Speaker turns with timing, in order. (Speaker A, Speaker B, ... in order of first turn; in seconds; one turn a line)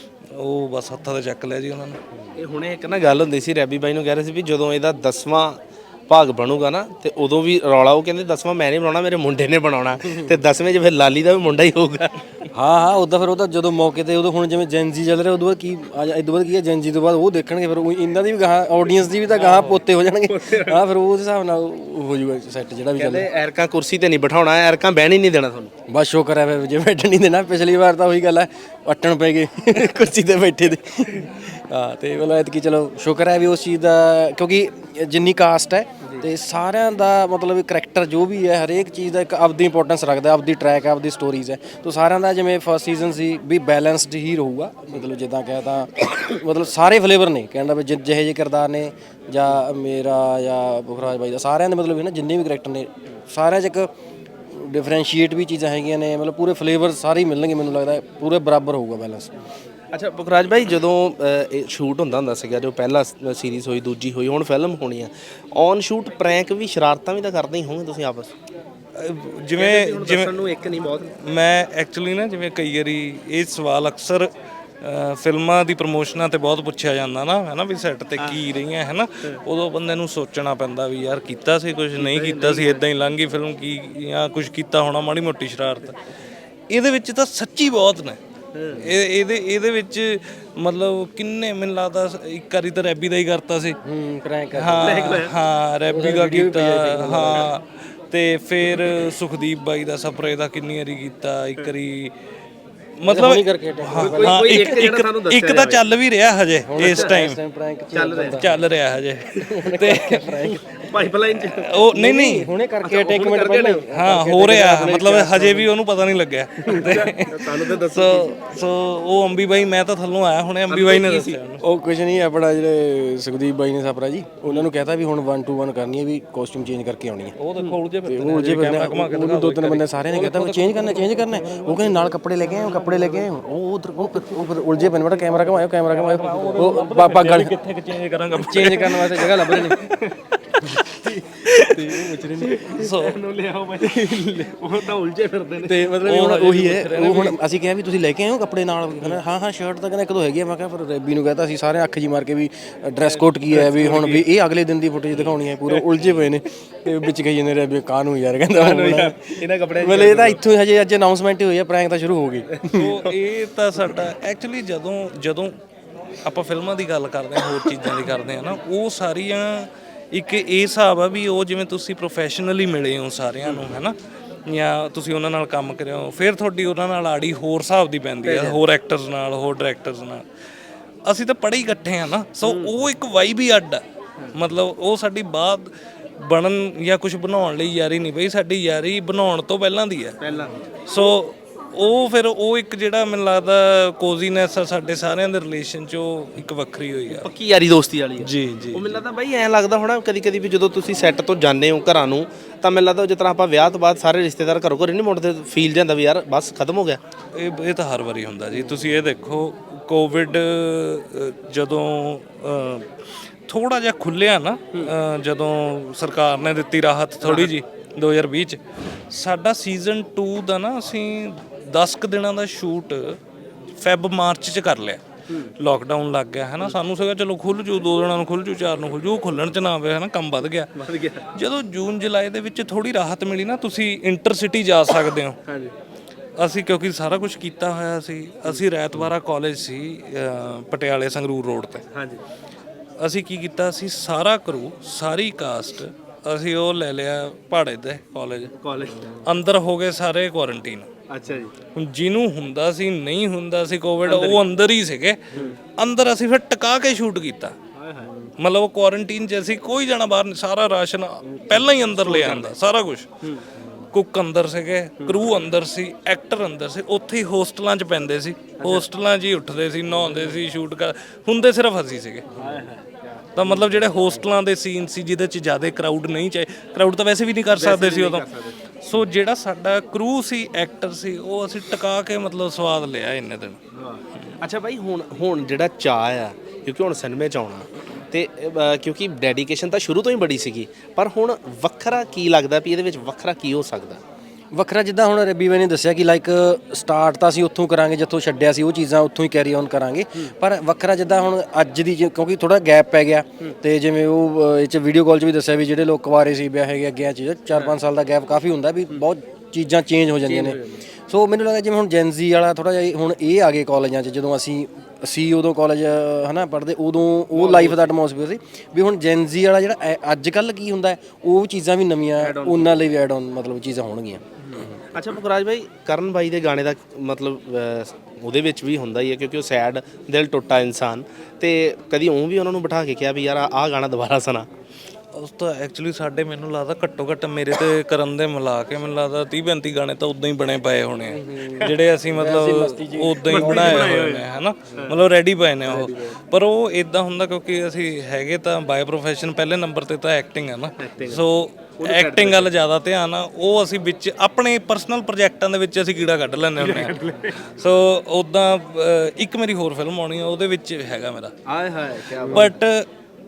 Speaker A: 0.3-2.0
Speaker B: 2.4-12.5
Speaker C: 12.5-23.2
Speaker B: 19.3-20.8
Speaker B: 23.0-25.7
Speaker C: 25.9-53.9
Speaker C: 54.5-59.3
Speaker B: 59.9-68.3
Speaker A: 69.0-70.5
Speaker B: 69.6-71.2
Speaker A: 71.2-74.3
Speaker A: 74.8-86.0
Speaker B: 82.0-82.8
Speaker A: 86.7-88.2
Speaker B: 88.5-88.9
Speaker A: 88.7-93.8
Speaker C: 93.8-95.2
Speaker A: 94.5-102.1
Speaker B: 94.8-95.3
Speaker C: 95.9-97.5
Speaker A: 103.0-107.4
Speaker C: 103.1-104.5
Speaker B: 104.0-105.8
Speaker C: 106.6-108.6
Speaker B: 106.8-107.2
Speaker B: 107.9-108.4
Speaker A: 108.3-110.5
Speaker C: 109.4-110.8
Speaker B: 110.6-111.8
Speaker A: 111.3-112.5
Speaker C: 111.9-115.7
Speaker B: 112.8-113.8
Speaker A: 113.9-121.6
Speaker C: 116.7-117.0
Speaker B: 116.7-118.3
Speaker B: 120.7-121.4
Speaker C: 121.6-127.4
Speaker A: 127.4-133.3
Speaker C: 128.0-137.5
Speaker A: 134.2-142.2
Speaker C: 138.3-139.8
Speaker C: 140.6-142.8
Speaker B: 142.4-145.9
Speaker A: 142.7-143.2
Speaker C: 145.7-163.1
Speaker A: 145.9-147.4
Speaker B: 153.1-154.2
Speaker B: 155.1-155.8
Speaker B: 158.5-160.4
Speaker A: 162.7-165.5
Speaker A: 166.2-173.9
Speaker A: 174.5-180.2
Speaker B: 178.2-178.6
Speaker A: 181.1-183.8
Speaker B: 182.4-182.8
Speaker A: 184.3-190.3
Speaker B: 190.2-190.6
Speaker A: 190.9-197.3
Speaker B: 197.1-207.0
Speaker A: 198.2-199.0
Speaker A: 207.3-218.6
Speaker B: 208.5-208.9
Speaker B: 217.2-217.5
Speaker A: 219.1-223.2
Speaker A: 223.8-225.0
Speaker B: 225.3-225.5
Speaker A: 225.6-230.7
Speaker B: 230.8-231.2
Speaker A: 231.3-235.4
Speaker B: 235.5-235.7
Speaker A: 236.4-241.8
Speaker B: 241.9-242.2
Speaker A: 243.0-248.5
Speaker B: 248.6-249.2
Speaker A: 249.1-250.9
Speaker B: 251.1-251.5
Speaker A: 251.7-257.5
Speaker B: 254.1-254.4
Speaker B: 255.3-255.6
Speaker B: 257.7-258.1
Speaker A: 258.4-263.1
Speaker B: 261.3-262.5
Speaker B: 263.2-263.9
Speaker A: 263.9-272.3
Speaker B: 265.0-265.3
Speaker B: 268.6-268.9
Speaker B: 270.0-270.4
Speaker B: 272.3-274.0
Speaker A: 273.4-278.3
Speaker B: 277.5-278.6
Speaker A: 278.8-283.6
Speaker B: 283.7-294.0
Speaker C: 294.5-324.8
Speaker B: 310.2-310.8
Speaker B: 317.3-317.9
Speaker B: 322.2-322.7
Speaker B: 324.4-334.5
Speaker A: 335.1-361.3
Speaker C: 341.1-344.1
Speaker B: 343.3-345.0
Speaker C: 345.7-346.1
Speaker B: 350.8-351.2
Speaker B: 351.8-352.5
Speaker B: 356.6-357.5
Speaker B: 361.5-362.5
Speaker C: 362.2-362.5
Speaker A: 362.3-362.9